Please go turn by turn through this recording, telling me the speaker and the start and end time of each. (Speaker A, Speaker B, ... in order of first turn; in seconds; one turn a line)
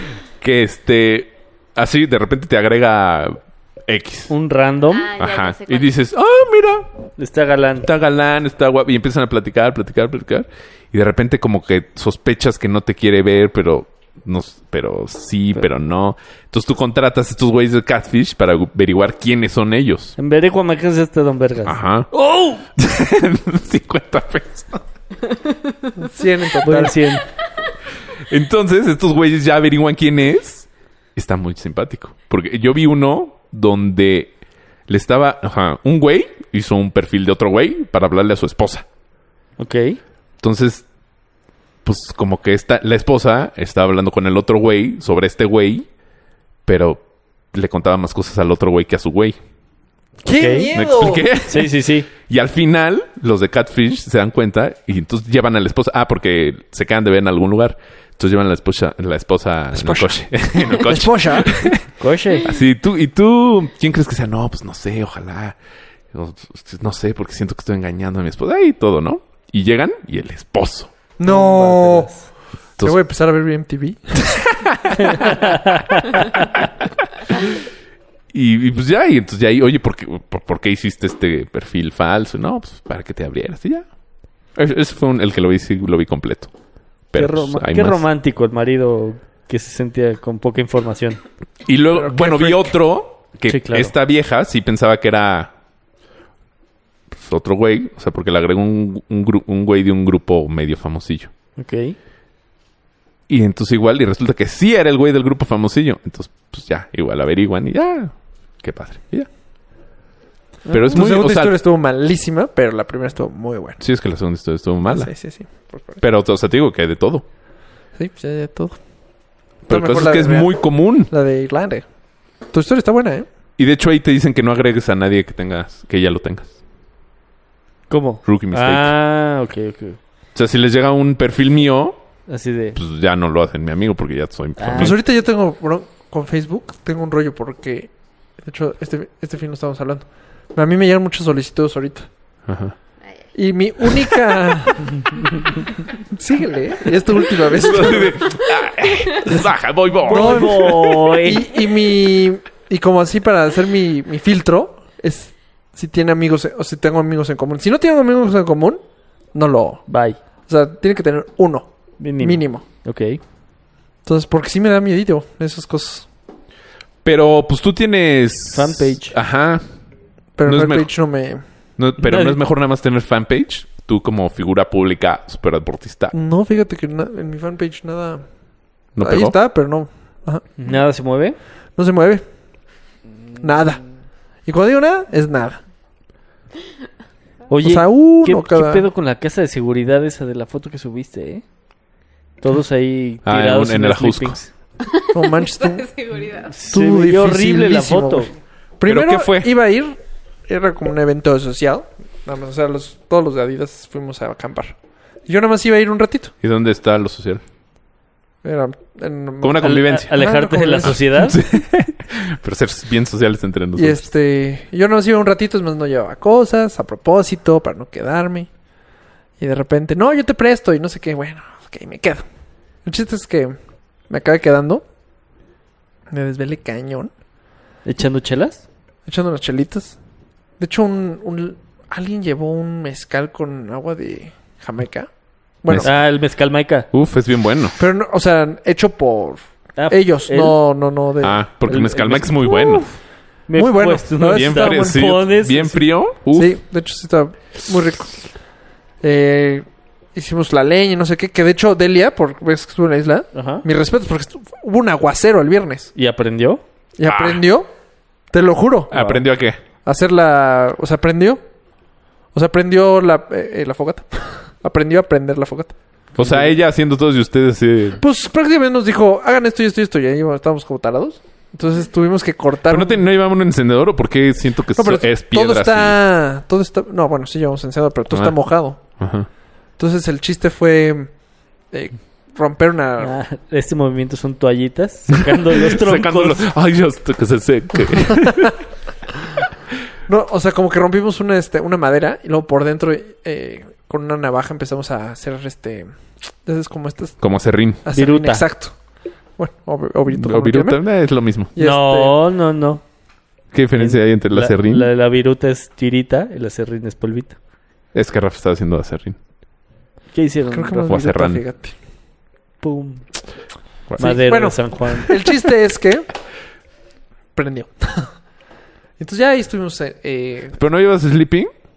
Speaker A: 0.4-4.3
Speaker B: 4.3-5.1
Speaker C: 4.9-6.0
Speaker A: 5.2-6.9
Speaker B: 7.2-7.9
Speaker A: 7.8-20.2
Speaker B: 20.2-22.6
Speaker A: 21.6-22.1
Speaker A: 22.8-24.8
Speaker D: 26.0-27.1
Speaker B: 26.6-27.2
Speaker A: 28.2-34.3
Speaker A: 34.9-38.9
Speaker B: 39.6-40.0
Speaker A: 40.4-40.9
Speaker A: 41.8-45.9
Speaker A: 46.7-47.0
Speaker A: 47.5-49.4
Speaker D: 50.2-51.3
Speaker B: 50.4-50.7
Speaker A: 50.7-61.8
Speaker B: 51.5-52.1
Speaker D: 59.8-61.7
Speaker B: 62.0-62.5
Speaker A: 62.4-65.6
Speaker A: 66.1-70.9
Speaker D: 71.2-72.1
Speaker B: 71.2-72.3
Speaker D: 72.8-74.5
Speaker A: 74.6-75.0
Speaker B: 75.0-76.4
Speaker A: 77.2-77.5
Speaker A: 78.3-83.9
Speaker A: 84.5-86.5
Speaker A: 87.1-88.0
Speaker B: 87.2-91.2
Speaker A: 91.7-95.5
Speaker D: 91.9-92.8
Speaker B: 93.5-93.9
Speaker A: 97.1-101.3
Speaker B: 101.6-102.0
Speaker A: 103.3-109.3
Speaker D: 110.7-113.8
Speaker A: 110.7-111.6
Speaker A: 113.8-115.1
Speaker D: 114.8-116.0
Speaker A: 116.0-117.2
Speaker D: 118.0-118.8
Speaker A: 119.7-121.1
Speaker D: 119.7-121.9
Speaker D: 122.5-123.3
Speaker A: 123.6-126.5
Speaker B: 127.9-130.0
Speaker A: 128.2-128.9
Speaker A: 130.3-132.0
Speaker B: 132.3-132.8
Speaker A: 132.8-135.0
Speaker B: 134.6-135.0
Speaker D: 134.8-142.1
Speaker A: 142.5-142.7
Speaker D: 143.3-145.1
Speaker D: 146.1-148.4
Speaker A: 147.5-150.9
Speaker B: 150.1-151.4
Speaker D: 150.1-158.8
Speaker D: 159.3-159.9
Speaker B: 159.9-160.2
Speaker D: 160.5-162.7
Speaker B: 162.0-163.2
Speaker D: 164.1-166.1
Speaker A: 167.0-169.6
Speaker B: 168.5-169.2
Speaker D: 170.4-171.4
Speaker A: 170.4-170.9
Speaker A: 171.8-176.1
Speaker B: 172.0-172.4
Speaker D: 176.1-178.2
Speaker A: 179.0-179.4
Speaker D: 179.0-180.7
Speaker B: 180.6-181.4
Speaker D: 181.8-182.2
Speaker D: 183.4-183.8
Speaker D: 184.4-185.6
Speaker B: 187.5-191.4
Speaker D: 187.6-188.9
Speaker B: 192.4-194.5
Speaker A: 193.2-194.4
Speaker C: 194.9-196.5
Speaker D: 195.1-195.9
Speaker B: 196.5-198.3
Speaker D: 196.7-206.3
Speaker A: 198.8-199.5
Speaker A: 206.4-207.4
Speaker D: 208.4-211.3
Speaker A: 209.4-210.2
Speaker B: 209.6-211.4
Speaker A: 210.8-214.1
Speaker D: 213.8-218.5
Speaker D: 219.4-222.2
Speaker D: 222.8-223.6
Speaker D: 224.1-224.8
Speaker D: 226.1-227.1
Speaker B: 227.8-228.6
Speaker D: 229.1-230.0
Speaker D: 230.6-235.1
Speaker D: 235.6-235.9
Speaker A: 235.7-236.0
Speaker B: 235.8-236.9
Speaker A: 236.9-237.8
Speaker D: 237.8-242.0
Speaker B: 239.8-240.6
Speaker A: 241.2-242.9
Speaker B: 241.7-242.8
Speaker B: 243.5-245.8
Speaker D: 243.6-245.0
Speaker A: 244.3-246.6
Speaker D: 246.3-248.2
Speaker D: 249.0-255.9
Speaker B: 253.3-253.7
Speaker B: 255.9-256.6
Speaker D: 257.0-257.7
Speaker A: 257.0-257.4
Speaker D: 258.3-259.1
Speaker A: 258.9-259.6
Speaker D: 259.8-261.4
Speaker D: 262.3-265.8
Speaker B: 266.2-266.5
Speaker A: 266.2-268.0
Speaker D: 268.0-273.0
Speaker A: 272.7-276.0
Speaker D: 274.8-278.8
Speaker A: 278.1-279.3
Speaker D: 279.8-281.1
Speaker D: 281.7-283.2
Speaker B: 283.0-286.4
Speaker A: 285.6-288.5
Speaker D: 290.1-297.2
Speaker A: 297.2-297.8
Speaker D: 297.8-298.8
Speaker B: 297.9-298.5
Speaker D: 299.4-300.8
Speaker A: 300.1-301.5
Speaker D: 301.6-302.2
Speaker B: 301.6-302.8
Speaker A: 303.5-304.9
Speaker B: 303.8-307.4
Speaker A: 307.9-309.2
Speaker B: 310.1-311.0
Speaker D: 310.5-311.7
Speaker A: 310.9-311.4
Speaker B: 312.6-313.1
Speaker A: 313.9-314.2
Speaker B: 314.0-315.2
Speaker D: 314.0-316.1
Speaker D: 317.4-318.1
Speaker D: 319.0-320.6
Speaker A: 320.6-321.5